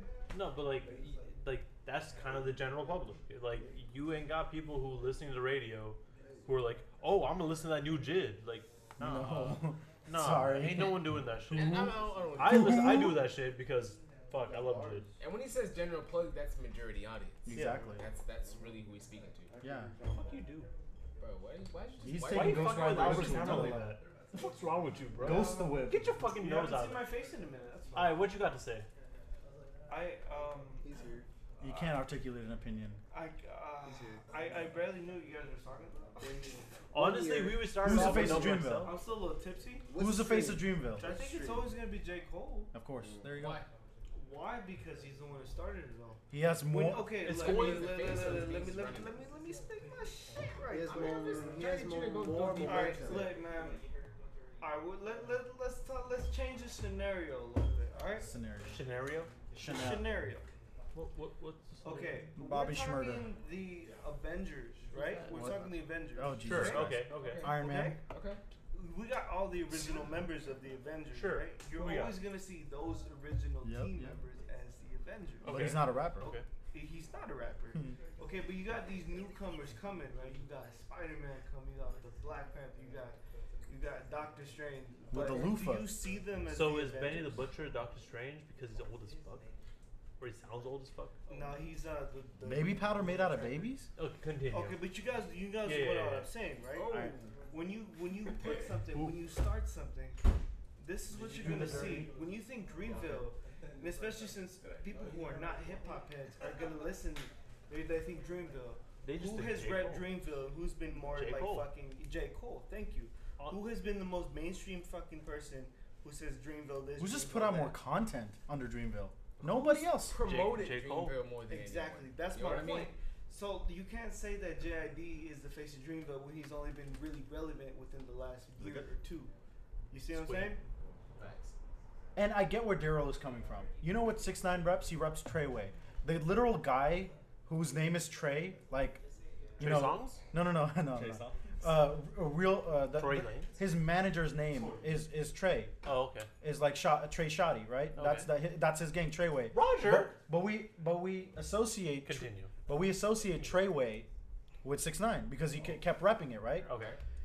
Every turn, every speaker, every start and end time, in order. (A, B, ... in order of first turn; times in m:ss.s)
0:00.3-0:15.1 A
0:09.0-0:13.2 B
0:11.5-0:13.0 C
0:14.4-0:15.1 D
0:15.2-0:19.6 C
0:17.4-0:18.0 B
0:18.4-0:18.8 D
0:19.5-0:20.4 D
0:19.6-0:19.9 B
0:20.1-0:20.7 A
0:21.2-0:23.7 C
0:22.0-0:24.0 B
0:22.3-0:27.0 A
0:25.2-0:28.3 E
0:25.2-0:26.2 B
0:27.9-0:28.9 A
0:29.9-0:30.8 E
0:30.8-0:31.3 D
0:31.6-0:33.0 B
0:31.6-0:31.9 E
0:33.1-0:37.0 E
0:33.9-0:34.2 D
0:36.9-0:39.0 A
0:37.5-0:38.2 C
0:37.7-0:39.0 B
0:37.9-0:38.6 D
0:38.0-0:39.9 E
0:39.9-0:41.7 D
0:39.9-0:41.1 B
0:40.9-0:42.7 E
0:42.7-0:43.6 B
0:43.0-0:43.3 D
0:43.3-0:43.7 C
0:44.1-0:51.5 E
0:46.3-0:47.2 B
0:47.2-0:48.2 A
0:47.2-0:49.2 C
0:50.7-0:53.4 D
0:50.7-0:53.4 C
0:52.6-0:53.8 E
0:54.6-0:58.3 E
0:58.2-0:58.8 B
0:58.7-0:59.3 A
0:59.5-1:00.1 B
0:59.6-1:00.5 E
1:00.9-1:02.2 A
1:01.8-1:06.8 E
1:02.4-1:03.3 B
1:04.9-1:05.2 A
1:05.3-1:08.0 B
1:06.4-1:07.5 A
1:07.0-1:08.4 C
1:07.5-1:08.0 E
1:08.7-1:27.4 E
1:11.1-1:12.2 A
1:13.6-1:14.2 B
1:15.4-1:16.4 A
1:15.4-1:16.3 B
1:25.1-1:25.9 B
1:26.5-1:29.5 A
1:30.2-1:31.2 A
1:31.3-1:33.7 E
1:32.4-1:33.9 B
1:34.0-1:34.8 A
1:34.5-1:40.2 E
1:35.6-1:36.3 A
1:36.7-1:37.4 C
1:40.8-1:57.8 E
1:41.2-1:42.0 A
1:41.2-1:42.1 B
1:49.0-1:50.1 A
1:51.1-1:51.7 A
1:57.0-2:00.2 B
1:59.4-2:02.9 C
2:00.1-2:01.2 A
2:01.4-2:09.3 E
2:08.6-2:08.8 B
2:09.9-2:10.6 E
2:10.1-2:10.5 A
2:11.2-2:11.5 C
2:12.1-2:19.0 B
2:19.6-2:25.7 B
2:19.6-2:20.2 A
2:23.0-2:23.5 A
2:24.5-2:24.9 E
2:25.8-2:26.3 A
2:26.4-2:34.1 B
2:28.0-2:28.3 A
2:29.5-2:30.1 A
2:32.0-2:32.5 A
2:34.6-2:36.7 B
2:36.6-2:37.0 A